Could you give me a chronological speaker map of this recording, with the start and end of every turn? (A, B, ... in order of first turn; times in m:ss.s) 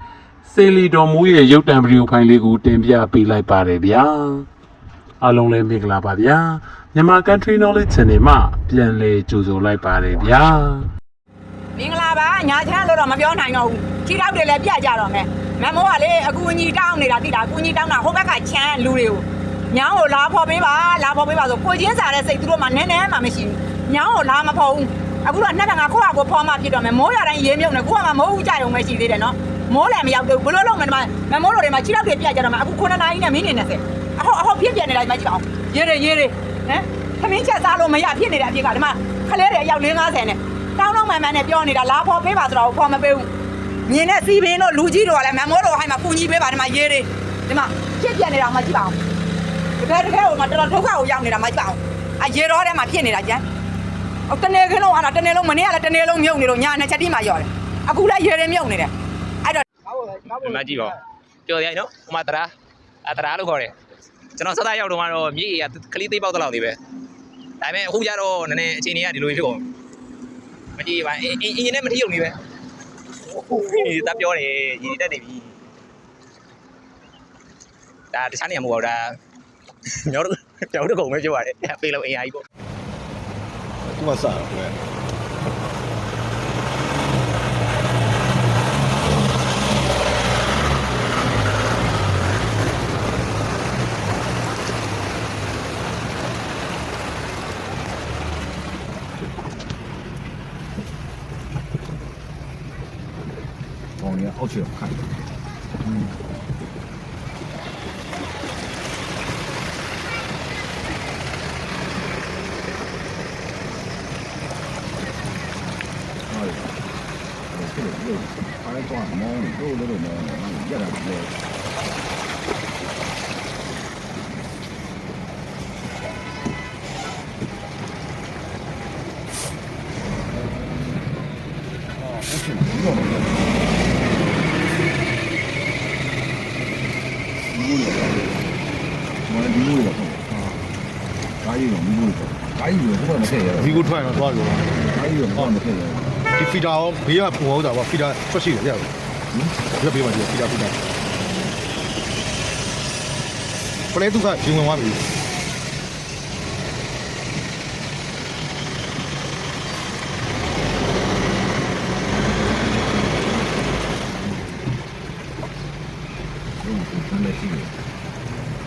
0:00.4-0:04.5 A
0:05.2-0:10.9 A
0:11.8-0:43.3 B
0:43.9-0:49.0 B
0:49.8-0:53.4 B
0:54.3-0:58.9 B
1:00.3-1:02.5 C
1:03.0-1:03.7 C
1:04.4-1:06.8 C
1:07.6-1:09.7 C
1:10.8-1:12.4 C
1:13.3-1:15.5 C
1:18.1-1:19.2 C
1:20.0-1:22.4 C
1:23.9-1:24.8 D
1:44.0-1:45.1 E
1:56.3-1:56.8 E
1:57.5-2:01.4 E
2:12.1-2:13.4 E
2:17.5-2:18.4 E
2:19.2-2:20.4 E
2:21.4-2:23.9 E
2:23.6-2:24.8 D
2:24.8-2:26.2 E
2:26.3-2:28.9 D
2:29.7-2:30.8 D
2:33.9-2:35.0 D
2:46.6-2:47.8 E